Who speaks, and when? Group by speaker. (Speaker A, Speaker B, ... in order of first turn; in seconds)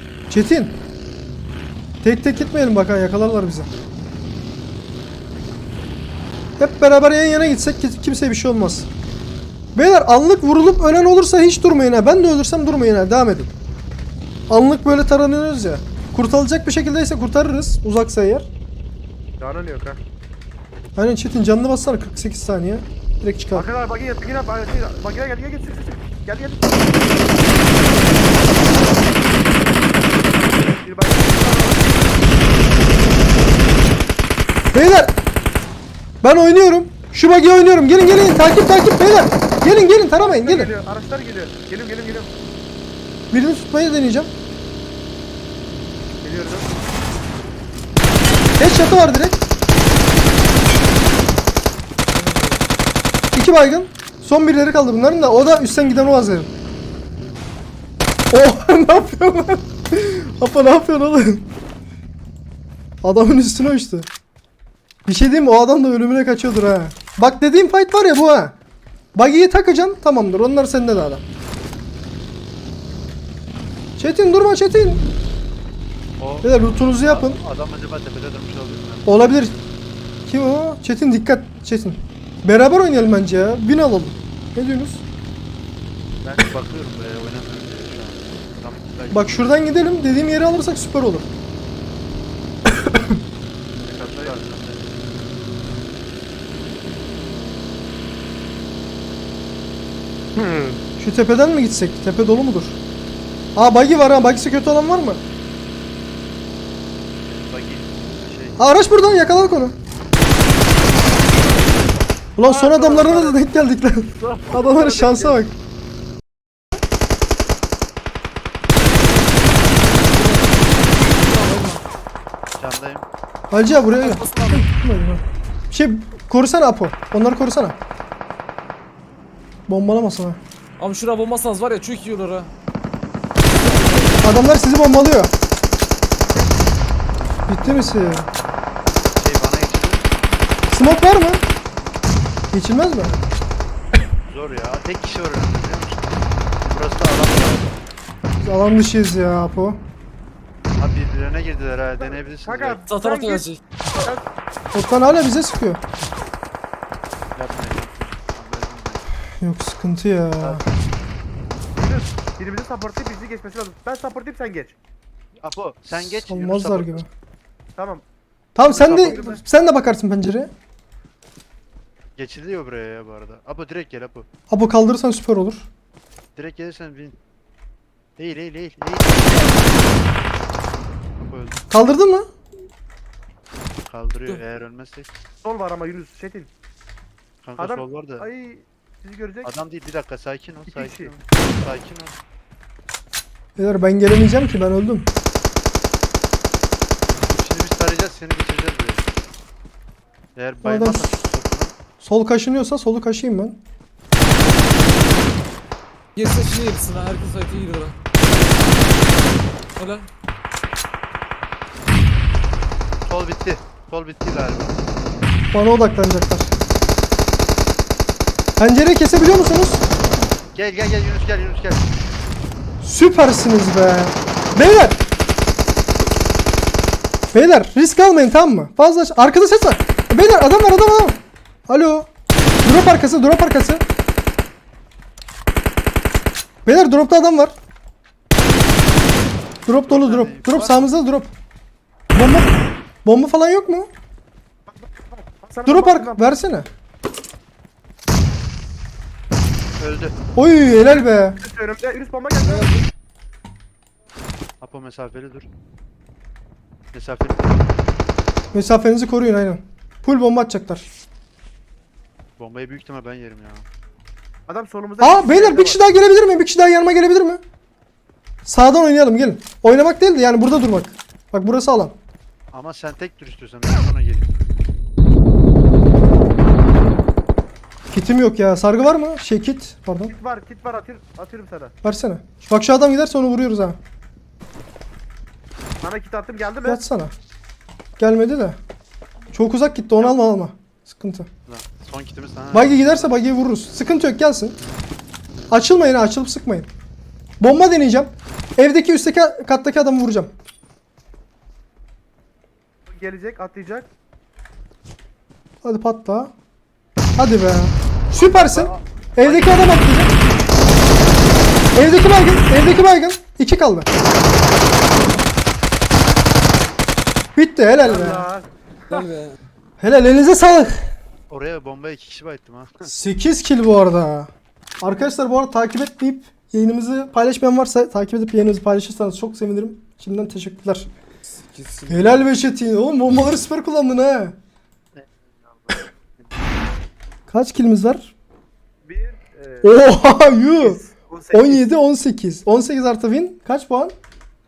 Speaker A: 0.3-0.8, 2.0-3.7, 6.6-8.9, 9.7-13.5, 14.5-18.5, 20.9-23.6, 34.7-35.1, 36.2-40.7, 43.3-44.3, 48.6-49.4, 53.3-56.5, 58.3-61.5, 63.0-64.1, 65.0-68.5, 69.1-71.2, 74.0-75.0, 76.4-77.4, 79.0-79.5, 80.3-85.0, 89.1-91.3, 92.7-93.2, 101.0-102.8, 103.5-105.2, 108.6-109.8, 112.4-115.5, 123.5-127.8, 129.7-130.4, 134.1-135.3, 137.5-138.3, 140.7-141.4, 142.5-143.1, 148.4-149.8, 154.7-155.8, 159.4-160.6, 165.9-167.1, 168.5-170.5, 174.5-175.7, 181.7-182.3, 193.6-195.1, 200.6-201.1, 202.0-203.6, 215.5-216.5, 218.6-219.8, 222.8-225.0, 227.3-232.1, 232.6-233.8, 236.7-237.5, 239.7-241.3, 242.1-242.5, 243.0-243.9, 245.7-246.7, 250.3-251.4, 258.5-260.9, 265.0-267.4, 268.4-271.9, 277.9-280.1, 281.8-283.8, 286.6-287.1, 288.0-288.6, 289.3-291.3, 292.5-294.6, 295.5-296.7, 297.4-300.3, 305.6-306.3, 307.2-310.1, 311.7-313.9, 317.3-318.3, 319.8-320.8, 322.8-324.3, 324.8-330.9, 331.9-334.4, 337.3-338.1, 339.6-340.8, 341.3-343.9
Speaker B: 19.4-20.0, 23.5-27.2, 30.4-32.3, 40.2-42.3, 46.2-46.8, 52.2-52.5, 93.8-94.4, 100.3-100.8, 112.4-113.4, 114.2-115.4, 152.0-154.2, 161.8-164.8, 167.8-168.0, 168.7-169.4, 185.4-186.5, 187.6-189.5, 190.7-191.1, 244.7-246.2, 251.4-252.8, 264.5-265.8, 280.1-281.7, 285.8-286.8, 302.9-303.9, 317.8-319.1, 338.8-339.7, 340.6-341.6
Speaker C: 76.2-79.6, 86.2-89.8, 93.8-94.9, 107.2-108.6, 122.6-123.0, 139.1-140.1, 144.2-147.8, 150.8-152.8, 157.3-159.1, 165.4-167.1, 168.7-169.4, 172.2-174.2, 176.3-177.2, 178.2-180.0, 181.2-181.6, 183.9-185.1, 187.4-188.3, 189.4-192.2, 197.1-199.0, 200.3-201.7, 213.1-214.8, 220.5-221.8, 239.8-240.9, 249.8-250.2, 254.6-255.5, 256.9-257.7, 262.4-263.6, 272.5-274.3, 291.5-293.2, 308.2-309.8, 321.3-322.9, 334.9-336.3
Speaker D: 120.0-121.8, 123.9-124.6, 130.8-132.5, 152.9-153.6, 206.2-207.9, 209.8-210.1, 318.9-319.3, 331.3-332.3